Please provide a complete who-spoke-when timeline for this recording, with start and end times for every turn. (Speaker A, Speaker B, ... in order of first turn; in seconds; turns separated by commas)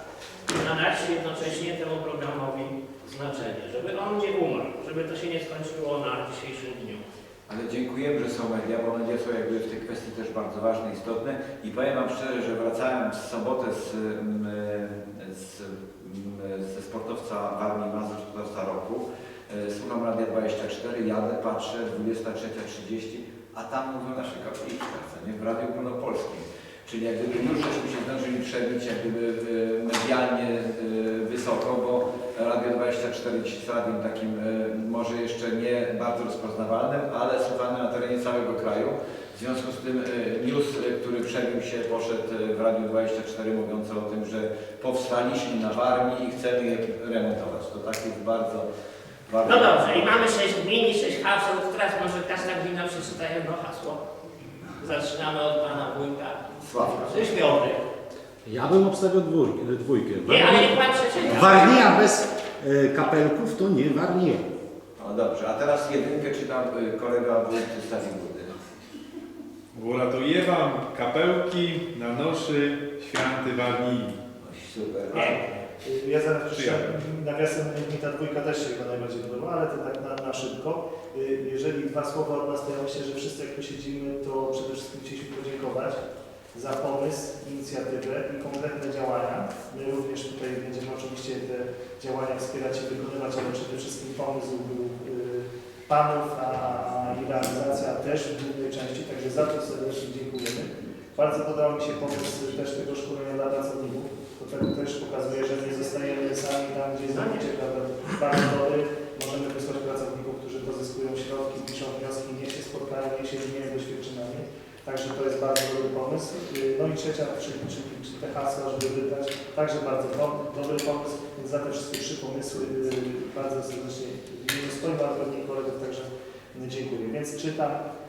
Speaker A: 0.5-7.0, Speaker B: 7.5-48.6, Speaker B: 49.3-50.1, Speaker A: 49.4-54.0, Speaker A: 54.8-57.9, Speaker B: 56.6-57.0, Speaker C: 58.4-60.6, Speaker A: 60.2-62.1, Speaker C: 61.3-64.5, Speaker B: 65.0-68.5, Speaker D: 69.7-74.2, Speaker B: 74.4-75.3, Speaker E: 75.1-86.0, Speaker A: 75.1-75.6, Speaker D: 76.5-76.9, Speaker E: 86.5-127.8, Speaker A: 107.1-107.5